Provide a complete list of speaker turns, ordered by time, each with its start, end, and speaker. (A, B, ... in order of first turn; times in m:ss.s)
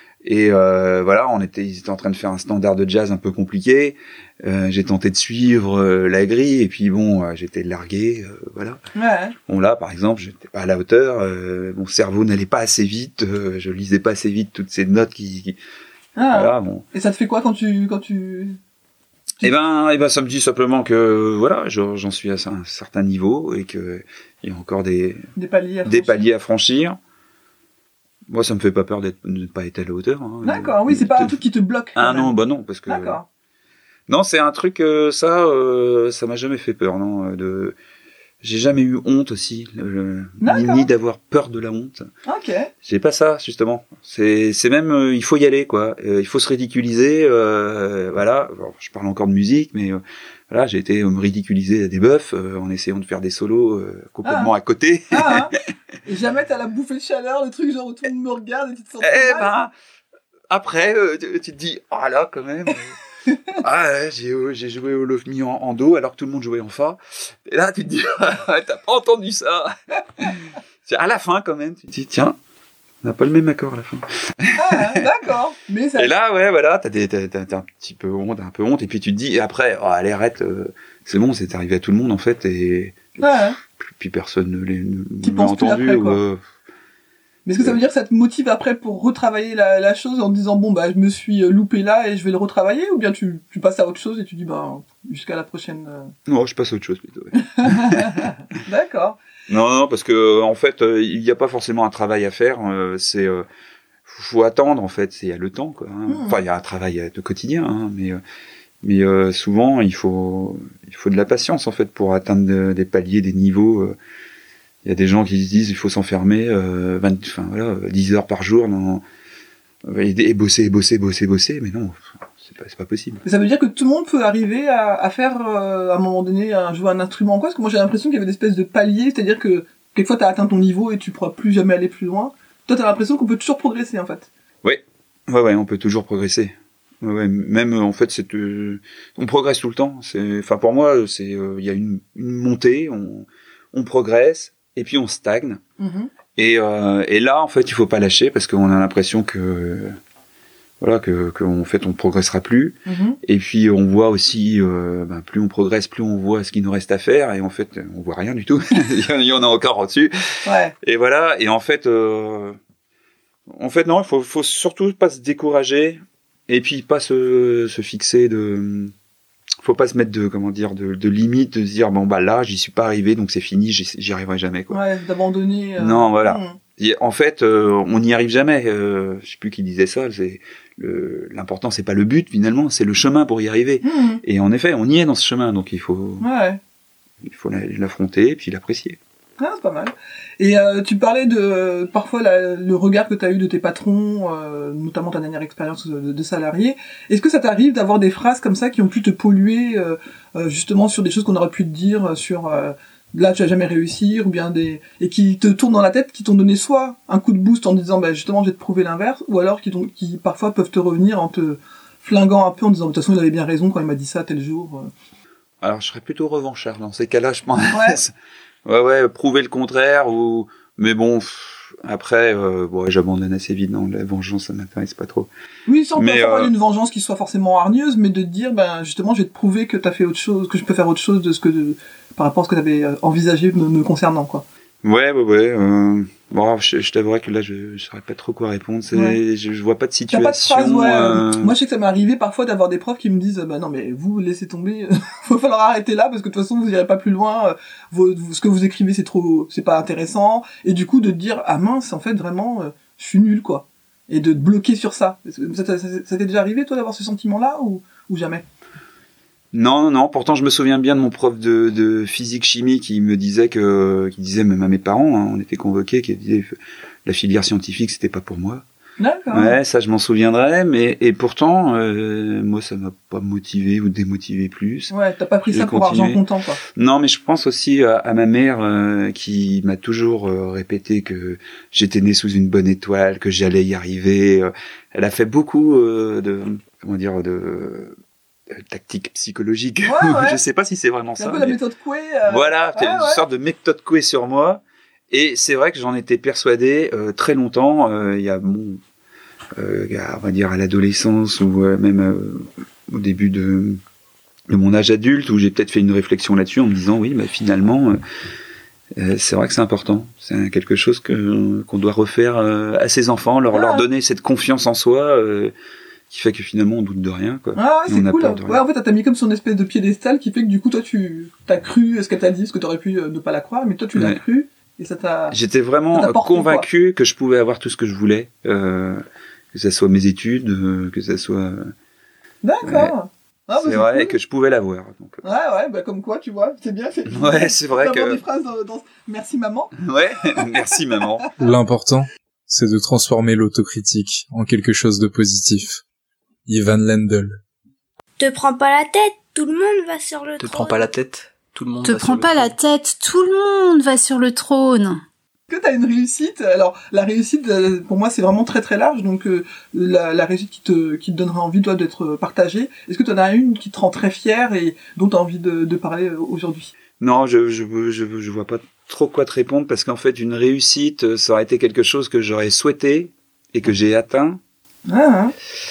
0:00.2-0:08.8 A
0:08.9-0:09.4 B
0:09.5-0:15.6 A
0:16.2-0:18.6 B
0:16.2-0:16.8 A
0:19.4-0:25.3 A
0:25.4-0:26.3 B
0:25.8-0:27.0 A
0:28.3-0:31.4 A
0:30.4-0:32.3 B
0:31.9-0:33.2 A
0:32.9-0:33.2 B
0:34.1-0:37.8 A
0:38.4-0:42.1 A
0:40.4-0:40.9 B
0:42.2-0:42.7 B
0:42.8-0:55.6 A
0:54.2-0:54.5 B
0:55.1-0:55.5 B
0:56.0-0:59.5 B
0:59.0-0:59.7 A
1:00.5-1:02.9 A
1:03.6-1:12.4 A
1:13.0-1:15.0 A
1:14.5-1:16.1 B
1:16.0-1:26.4 A
1:23.2-1:23.6 B
1:25.2-1:26.2 B
1:27.4-1:36.1 B
1:36.3-1:38.3 A
1:37.4-1:39.2 B
1:39.5-1:43.4 A
1:44.0-1:48.2 A
1:46.1-1:46.4 B
1:48.8-1:54.0 A
1:54.8-1:59.0 A
1:59.8-2:03.2 A
2:03.2-2:14.3 B
2:14.6-2:25.6 A
2:25.8-2:26.1 B
2:26.4-2:30.0 A
2:30.8-2:40.2 A
2:32.8-2:33.2 B
2:40.4-2:40.7 B
2:40.8-2:42.6 A
2:43.5-2:48.9 A
2:49.6-2:54.8 A
2:54.7-2:56.6 B
2:55.8-3:06.3 A
3:03.8-3:04.2 B
3:06.2-3:06.6 B
3:07.2-3:09.0 A
3:09.4-3:34.9 B
3:35.6-3:38.1 A
3:37.7-3:38.0 B
3:38.6-3:45.3 A
3:45.7-3:54.4 B
3:45.9-3:46.5 A
3:54.8-4:01.5 A
4:00.1-4:18.4 B
4:19.5-4:28.6 A
4:29.0-4:29.5 B
4:29.3-4:34.9 A
4:34.9-4:36.6 B
4:35.5-4:47.9 A
4:48.5-4:51.6 A
4:49.8-4:50.4 B
4:51.2-4:53.2 B
4:52.3-4:58.8 A
4:59.6-5:03.8 A
5:04.5-5:08.0 A
5:08.9-5:15.5 A
5:13.5-5:13.8 B
5:16.1-5:18.6 A
5:17.5-5:25.4 B
5:23.9-5:24.2 A
5:25.3-5:31.7 A
5:25.9-5:26.6 B
5:32.4-5:34.2 B
5:32.6-5:32.9 A
5:33.6-5:35.2 A
5:35.2-5:40.7 B
5:37.1-5:38.2 A
5:39.8-5:41.2 A
5:41.4-5:45.8 C
5:46.4-5:47.4 C
5:48.2-5:50.8 D
5:50.4-5:52.5 E
5:51.8-5:55.0 F
5:55.5-6:06.7 B
6:07.0-6:14.4 A
6:14.9-6:15.3 B